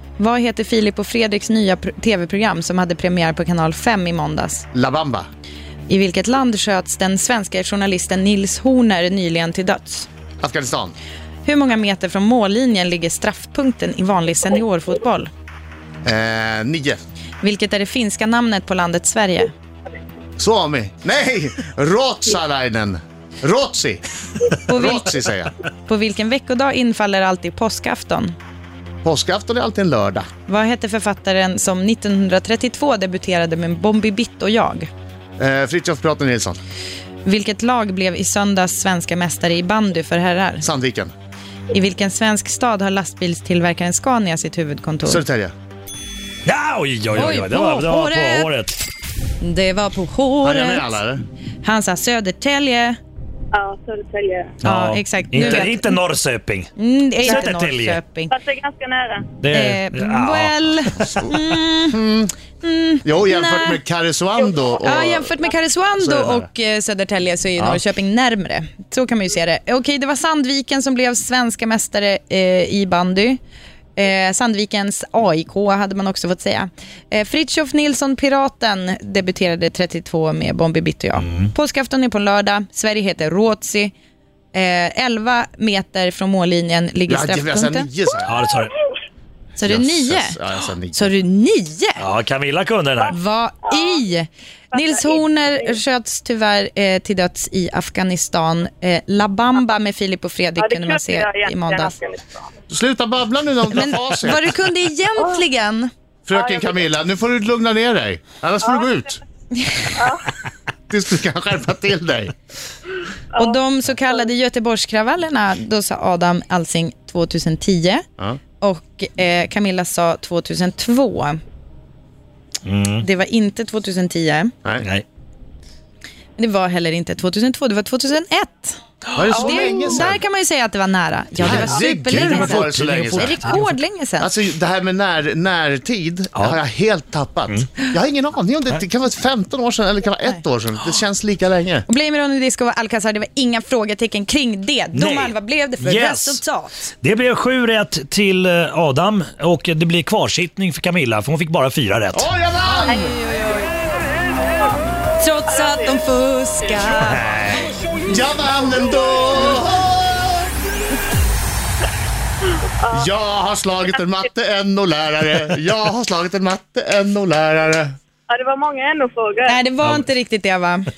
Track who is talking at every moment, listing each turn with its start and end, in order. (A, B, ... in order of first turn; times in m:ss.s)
0:00.2-0:04.6 A
0:04.7-0:05.3 B
0:05.9-0:10.1 A
0:10.4-0:11.0 B
0:11.4-0:15.3 A
0:16.0-0:17.0 B
0:17.4-0:19.5 A
0:20.4-0:24.0 B
0:24.6-0:25.2 A
0:24.7-0:25.5 B
0:25.8-0:28.3 A
0:29.0-0:30.3 B
0:30.5-0:34.9 A
0:35.4-0:36.6 B
0:37.2-0:40.6 A
0:40.6-0:41.1 B
0:41.7-0:45.2 A
0:45.0-0:45.5 B
0:46.4-0:48.7 C
0:47.1-0:48.5 A
0:49.4-0:51.0 A
0:50.4-0:51.2 B
0:51.6-0:53.0 A
0:53.5-0:54.5 D
0:54.6-0:56.0 A
0:54.6-0:56.7 C
0:56.8-0:58.3 A
0:57.2-0:58.0 C
0:58.3-0:59.3 D
0:59.4-1:01.2 C
0:59.5-1:02.0 A
1:01.2-1:02.3 B
1:02.6-1:03.8 A
1:03.0-1:05.3 B
1:04.8-1:13.4 A
1:06.0-1:06.5 B
1:07.6-1:07.8 B
1:14.0-1:23.9 A
1:21.2-1:21.5 C
1:24.5-1:27.9 A
1:27.1-1:28.4 B
1:28.2-1:28.7 C
1:29.6-1:30.4 A
1:29.6-1:31.1 B
1:30.9-1:32.0 A
1:32.0-1:33.2 C
1:33.1-1:41.9 A
1:33.7-1:34.0 D
1:34.7-1:35.2 D
1:40.6-1:42.4 D
1:42.7-1:44.5 B
1:43.7-1:45.9 A
1:46.3-1:49.2 B
1:46.3-1:46.9 D
1:50.0-1:50.3 D
1:50.9-1:52.3 B
1:53.4-1:58.0 A
1:58.6-2:01.4 A
2:02.6-2:03.0 C
2:03.0-2:04.5 A
2:04.8-2:05.0 C
2:06.4-2:08.8 A
2:09.1-2:10.2 B
2:09.3-2:14.3 A
2:09.4-2:09.8 D
2:11.4-2:13.7 C
2:11.4-2:13.4 B
2:14.2-2:21.8 B
2:21.9-2:26.9 A
2:24.9-2:26.4 C
2:27.0-2:32.2 C
2:32.1-2:33.1 B
2:32.8-2:33.7 A
2:32.9-2:33.1 D
2:35.2-2:37.3 A
2:37.1-2:37.6 C
2:38.0-2:40.5 B
2:42.8-2:43.1 D
2:42.9-2:47.9 B
2:48.3-2:49.6 D
2:49.5-2:50.9 A